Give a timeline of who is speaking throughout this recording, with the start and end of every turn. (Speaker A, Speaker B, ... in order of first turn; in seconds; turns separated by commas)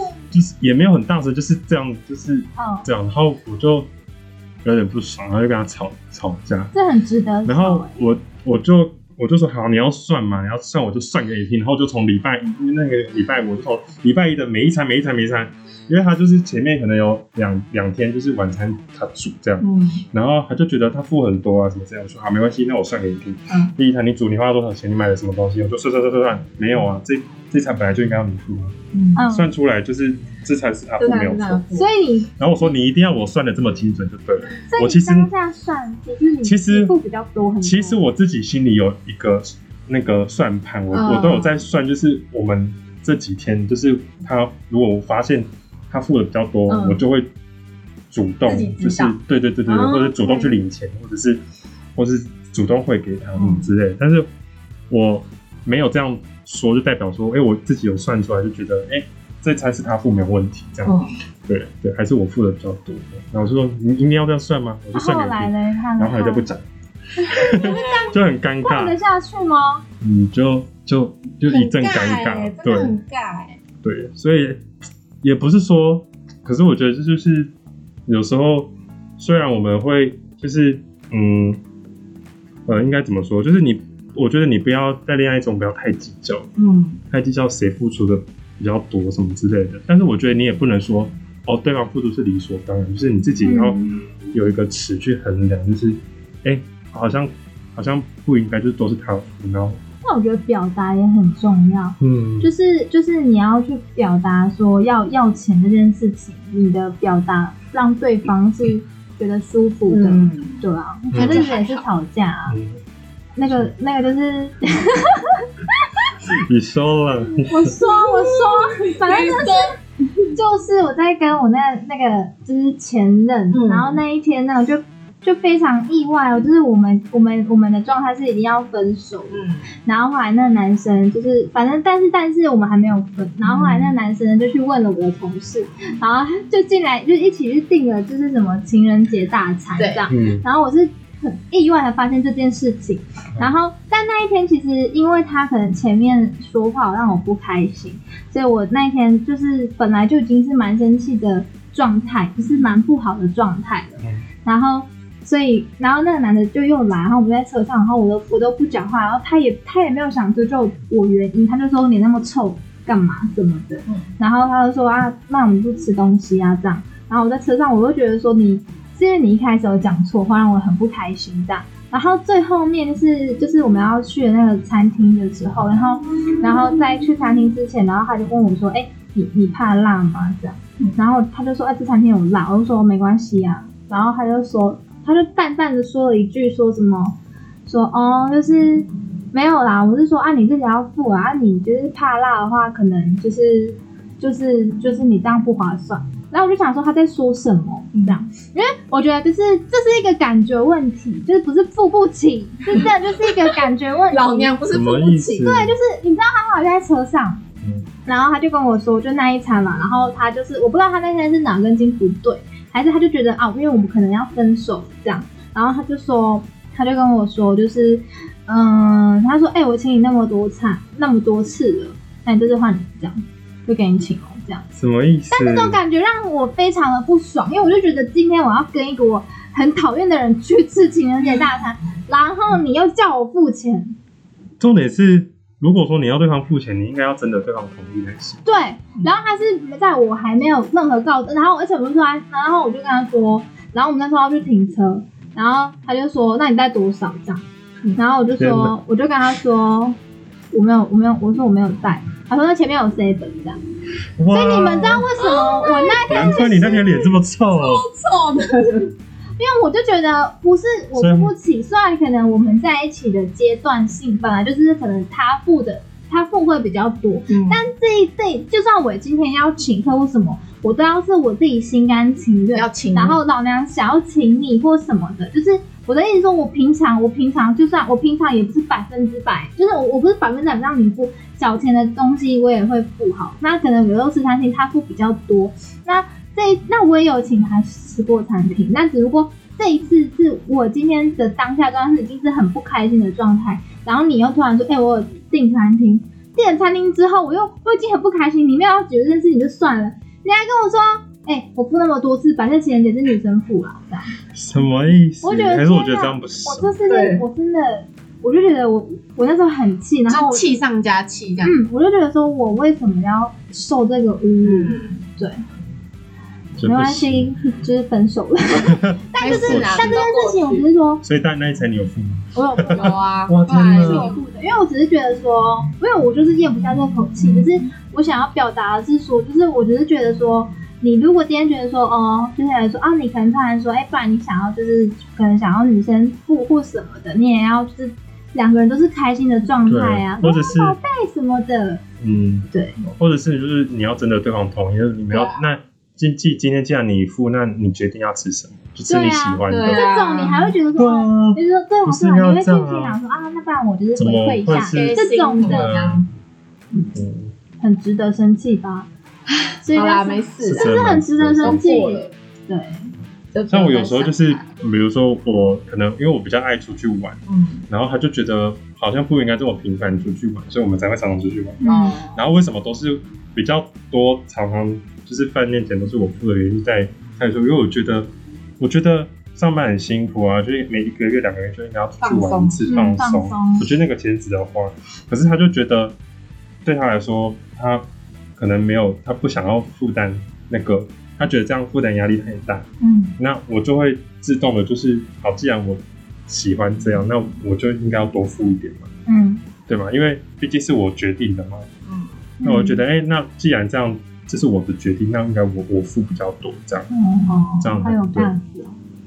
Speaker A: 0.3-3.9, Speaker B: 2.6-2.9, Speaker A: 4.6-6.7, Speaker B: 6.7-7.9, Speaker A: 7.4-28.7, Speaker C: 19.6-20.0, Speaker C: 28.9-29.2, Speaker B: 29.1-29.5, Speaker A: 29.3-31.6, Speaker C: 31.0-31.9, Speaker B: 31.7-32.4, Speaker A: 32.4-35.3, Speaker B: 34.7-38.0, Speaker A: 36.4-36.9, Speaker A: 37.6-47.3, Speaker C: 40.9-41.6, Speaker C: 46.7-47.0, Speaker A: 48.1-51.4, Speaker C: 48.4-50.5, Speaker A: 52.0-54.3, Speaker C: 53.4-53.7, Speaker A: 54.9-66.6, Speaker C: 60.8-61.1, Speaker B: 64.9-66.5, Speaker B: 67.2-67.9, Speaker A: 67.3-69.0, Speaker C: 67.4-68.2, Speaker B: 68.6-69.8, Speaker A: 70.0-72.9, Speaker C: 71.5-73.6, Speaker A: 73.8-74.6, Speaker A: 75.2-77.5, Speaker A: 78.1-81.6, Speaker A: 82.7-86.5, Speaker C: 86.6-87.0, Speaker A: 87.1-93.8, Speaker B: 93.4-94.0, Speaker A: 94.3-99.8, Speaker B: 100.0-112.6, Speaker A: 102.0-102.5, Speaker C: 109.9-111.9, Speaker A: 111.1-111.5, Speaker A: 112.5-112.8, Speaker B: 113.3-115.4, Speaker A: 116.3-117.8, Speaker B: 117.4-119.7, Speaker C: 117.8-119.8, Speaker B: 120.3-204.5, Speaker C: 123.5-124.0, Speaker C: 129.3-129.7, Speaker C: 133.4-133.9, Speaker C: 139.8-140.1, Speaker A: 140.1-140.4, Speaker C: 197.9-198.2, Speaker C: 204.1-205.5, Speaker A: 204.7-205.8, Speaker B: 205.2-207.4, Speaker A: 207.6-207.9, Speaker B: 208.0-224.7, Speaker A: 224.7-225.8, Speaker B: 225.3-233.9, Speaker A: 234.6-238.4, Speaker B: 238.4-247.4, Speaker B: 247.9-250.0, Speaker A: 248.4-248.7, Speaker B: 250.5-253.6, Speaker A: 254.2-255.1, Speaker B: 254.3-256.7, Speaker C: 255.2-258.9, Speaker A: 256.1-257.8, Speaker B: 259.4-304.1, Speaker A: 260.9-261.3, Speaker C: 267.3-267.6, Speaker C: 272.5-273.2, Speaker A: 304.3-306.7, Speaker B: 305.2-310.4, Speaker C: 306.9-307.2, Speaker C: 310.1-311.6, Speaker B: 311.4-315.4, Speaker C: 314.4-315.0, Speaker A: 316.6-317.3, Speaker B: 316.6-321.0, Speaker A: 318.5-320.0, Speaker C: 319.2-320.6, Speaker A: 321.0-324.1, Speaker B: 322.3-323.0, Speaker C: 322.7-324.2, Speaker B: 323.7-341.8, Speaker A: 339.6-340.8, Speaker A: 342.0-349.9, Speaker B: 342.5-342.8, Speaker C: 345.1-345.4, Speaker B: 348.9-355.9, Speaker C: 349.5-350.5, Speaker A: 350.8-353.0, Speaker A: 353.9-356.1, Speaker C: 354.4-356.1, Speaker A: 356.9-357.3, Speaker B: 357.6-358.9, Speaker C: 359.3-360.8, Speaker B: 359.6-362.9, Speaker A: 360.4-361.6, Speaker C: 361.4-362.1, Speaker C: 363.3-364.5, Speaker A: 363.5-378.1, Speaker C: 367.3-367.6, Speaker B: 371.6-371.9, Speaker C: 371.6-372.2, Speaker A: 378.6-385.9, Speaker C: 382.0-382.7, Speaker B: 382.7-383.7, Speaker A: 386.6-392.7, Speaker C: 392.8-393.1, Speaker A: 393.2-398.9, Speaker B: 399.1-399.4, Speaker A: 399.7-401.7, Speaker C: 401.9-402.1, Speaker B: 402.4-402.8, Speaker A: 402.4-406.9, Speaker B: 406.9-408.8, Speaker C: 407.3-407.7, Speaker A: 407.6-408.3